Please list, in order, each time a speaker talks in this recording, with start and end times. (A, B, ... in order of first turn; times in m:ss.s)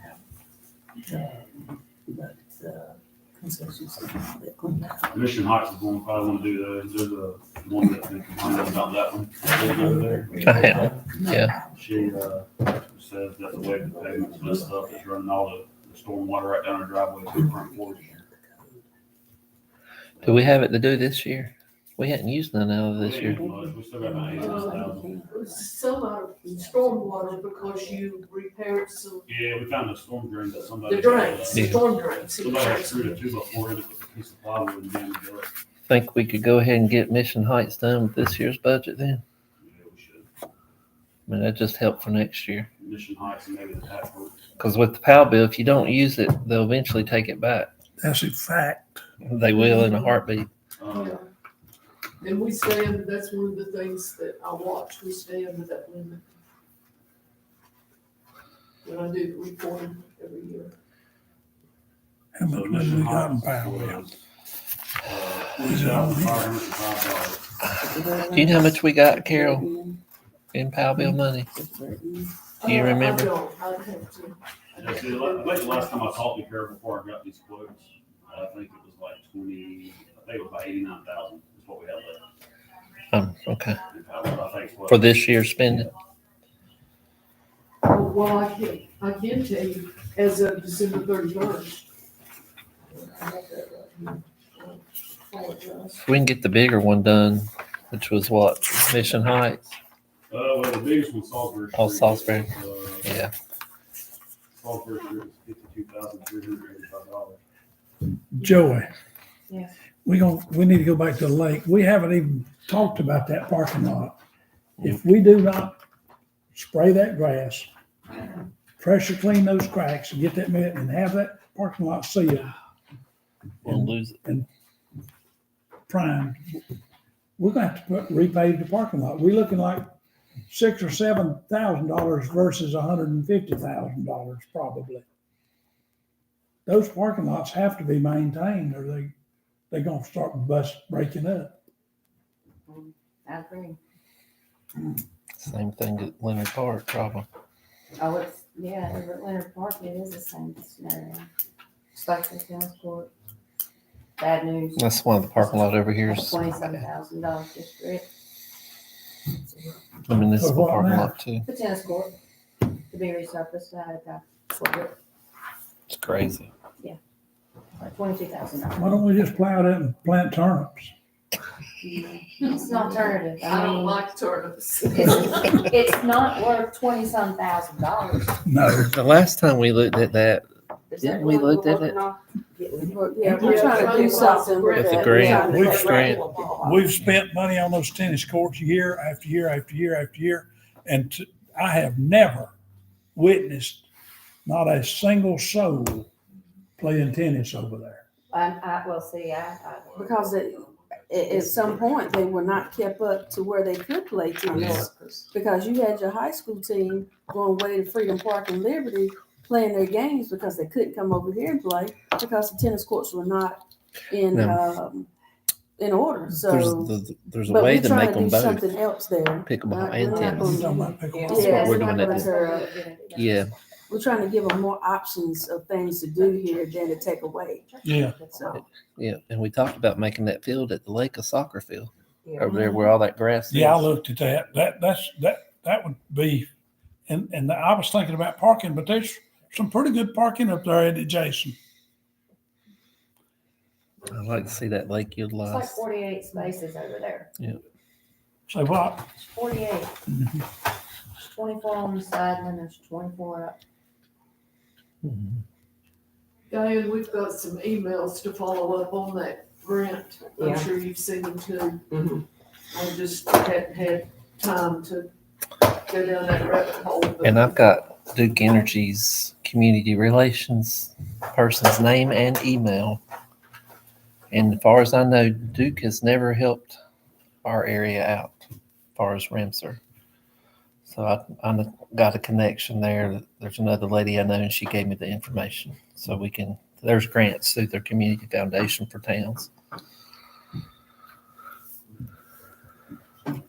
0:05.1-0:11.1 A
0:10.4-0:11.6 B
0:11.7-0:18.2 A
0:20.2-0:23.6 B
0:23.0-0:25.1 A
0:24.4-0:29.3 C
0:29.3-0:31.8 A
0:30.8-0:33.2 C
0:31.5-0:31.8 B
0:32.3-0:35.5 A
0:35.9-0:39.2 B
0:39.6-0:40.3 A
0:41.3-0:42.7 B
0:42.8-0:44.4 A
0:44.6-0:47.7 B
0:48.0-0:49.0 D
0:49.2-0:50.5 B
0:49.6-0:50.1 C
0:50.8-0:51.2 A
0:50.9-0:51.2 C
0:52.2-0:56.2 C
0:58.8-1:00.7 C
1:02.3-1:04.1 D
1:02.4-1:04.1 A
1:05.0-1:07.5 A
1:05.7-1:06.4 D
1:07.8-1:10.0 E
1:08.2-1:09.7 B
1:10.5-1:11.5 B
1:11.5-1:12.3 E
1:12.6-1:14.4 C
1:12.6-1:13.3 B
1:14.7-1:22.2 A
1:14.9-1:15.5 C
1:23.1-1:23.9 B
1:23.9-1:25.1 A
1:24.9-1:25.9 B
1:27.8-1:31.8 C
1:32.9-1:36.0 C
1:36.0-1:39.7 B
1:40.3-1:43.0 A
1:41.7-1:42.5 B
1:43.0-1:43.3 B
1:44.6-1:47.4 A
1:48.3-1:48.9 D
1:50.0-1:54.2 D
1:54.8-1:55.8 D
1:56.5-1:57.7 D
1:58.8-2:02.5 D
2:03.6-2:04.2 B
2:03.6-2:04.5 D
2:05.9-2:06.6 D
2:07.4-2:09.9 D
2:10.5-2:15.0 D
2:16.6-2:19.1 D
2:19.7-2:21.6 D
2:22.7-2:23.8 F
2:25.4-2:27.2 B
2:28.0-2:31.3 F
2:31.9-2:33.1 F
2:34.2-2:38.0 F
2:34.8-2:36.8 B
2:40.1-2:41.4 B
2:40.4-2:41.1 D
2:41.4-2:42.1 F
2:42.9-2:44.9 F
2:45.9-2:46.5 B
2:47.8-2:49.0 F
2:48.8-2:50.9 D
2:51.8-2:54.1 F
2:53.4-2:55.6 C
2:54.9-2:58.4 F
2:58.4-2:58.9 D
2:58.9-3:02.0 B
3:01.0-3:02.1 F
3:02.7-3:06.1 E
3:03.3-3:06.5 C
3:03.6-3:06.5 F
3:04.7-3:06.2 B
3:05.4-3:12.5 D
3:13.1-3:13.8 D
3:14.4-3:16.1 D
3:16.8-3:18.0 D
3:18.3-3:20.0 F
3:19.8-3:21.4 A
3:19.9-3:35.1 E
3:21.3-3:21.8 F
3:24.7-3:25.1 F
3:34.3-3:34.6 B
3:35.8-3:36.9 E
3:36.4-3:38.7 B
3:37.4-3:42.7 E
3:39.4-3:40.7 B
3:40.3-3:41.7 D
3:41.1-3:43.5 F
3:41.4-3:42.3 B
3:43.1-3:43.5 B
3:43.9-3:47.6 E
3:46.1-3:48.6 F
3:47.8-3:48.2 D
3:48.2-3:48.6 E
3:48.6-3:53.9 B
3:53.5-3:56.5 D
3:57.1-4:01.6 D
4:04.1-4:05.8 B
4:05.4-4:07.3 F
4:08.5-4:09.0 D
4:09.2-4:09.9 F
4:10.1-4:10.4 D
4:11.2-4:13.6 F
4:15.0-4:15.4 B
4:16.5-4:22.0 C
4:22.7-4:27.5 C
4:27.2-4:33.0 B
4:34.3-4:36.8 B
4:37.4-4:39.8 B
4:40.8-4:49.5 B